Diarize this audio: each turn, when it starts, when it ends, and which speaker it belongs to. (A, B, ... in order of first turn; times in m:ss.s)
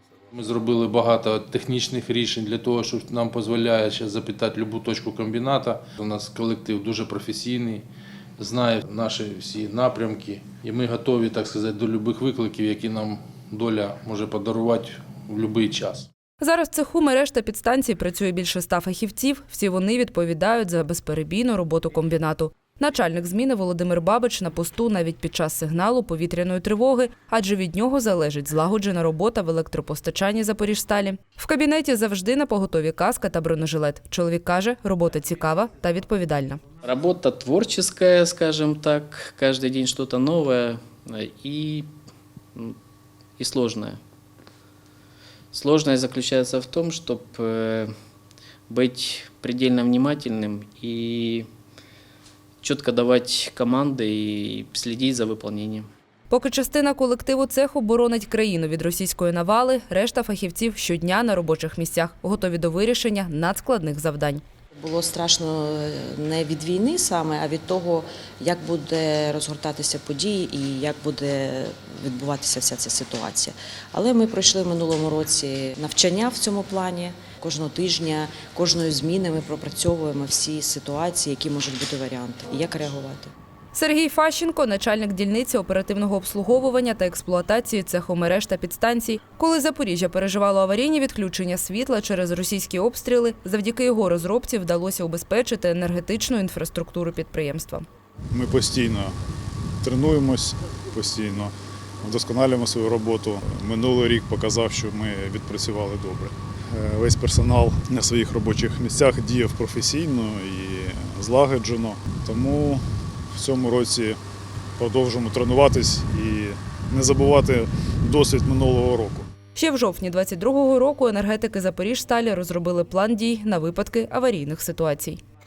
0:00.3-0:07.9 A
0:08.4-0:16.1 A
0:16.4-0:36.6 B
0:36.8-0:41.9 C
0:43.4-0:44.0 C
0:45.5-0:47.9 C
0:48.7-0:51.5 C
0:52.6-0:55.9 C
0:56.3-1:04.4 B
1:04.8-1:23.3 D
1:23.7-1:37.9 B
1:38.3-1:39.1 E
1:39.8-1:41.5 E
1:42.0-1:52.8 E
1:53.3-1:54.2 E
1:54.8-1:59.3 E
1:59.6-2:05.2 B